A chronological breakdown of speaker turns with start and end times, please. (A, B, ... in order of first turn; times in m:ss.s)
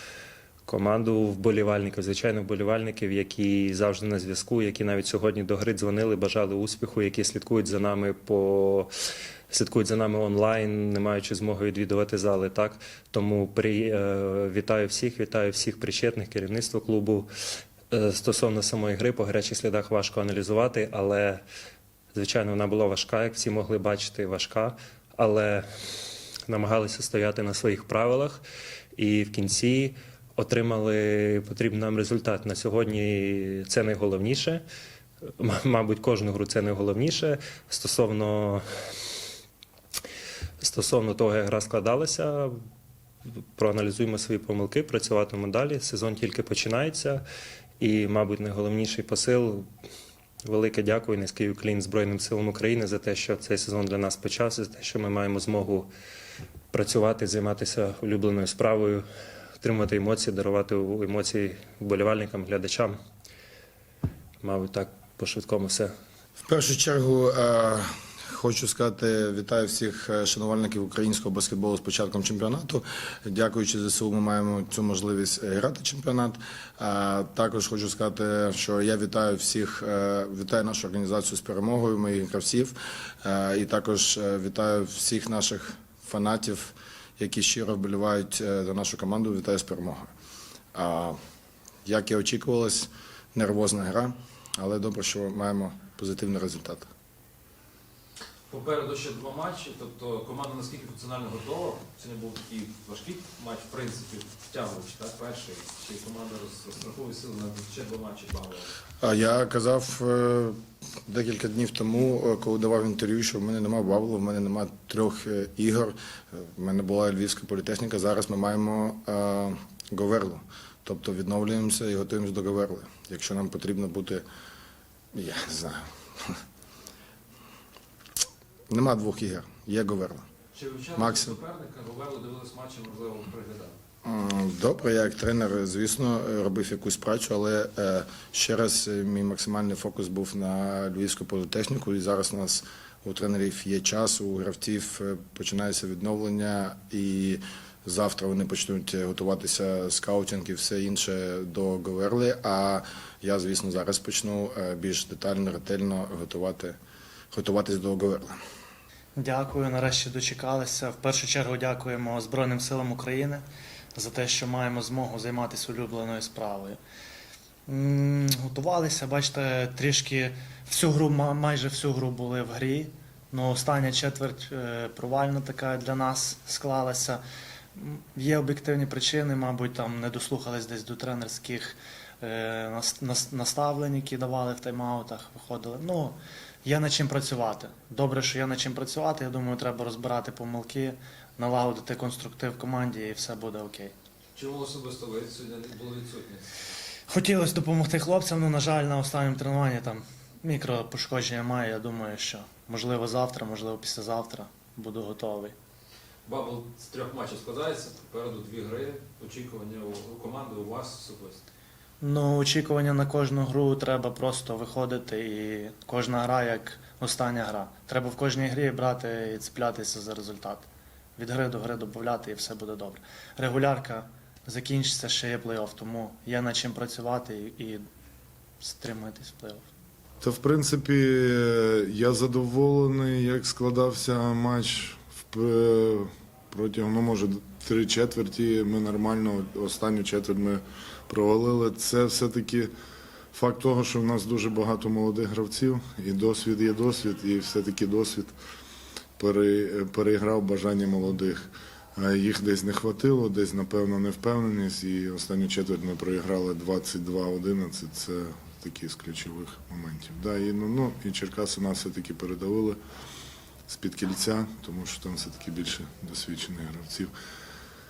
0:00.7-0:08.9 A
0:09.5-0:17.3 A
0:17.9-0:21.4 A
0:22.1-0:25.7 A
0:26.5-0:28.4 A
0:29.0-0:34.6 A
0:35.4-0:38.6 A
0:40.6-0:42.5 A
0:43.6-0:47.2 A
0:47.8-0:49.7 A
0:50.4-0:55.9 A
0:56.7-0:59.0 A
0:59.6-1:03.0 A
1:04.4-1:05.9 A
1:06.5-1:30.1 B
1:30.7-1:31.2 B
1:31.8-1:36.9 B
1:38.5-1:48.7 C
1:49.0-2:04.2 B
2:05.1-2:06.4 B
2:08.7-2:10.2 B
2:10.5-2:13.8 C
2:11.0-2:11.4 B
2:14.0-2:36.8 B
2:37.3-2:38.4 B
2:39.2-2:46.8 D
2:47.7-2:57.2 D
2:57.8-3:13.9 D
3:14.4-3:16.6 C
3:17.1-3:25.6 D
3:26.3-3:31.4 C
3:32.0-3:47.8 D
3:48.6-3:49.7 D
3:50.2-4:02.7 E
4:03.3-4:08.3 E
4:09.2-4:22.8 E
4:23.7-4:27.1 E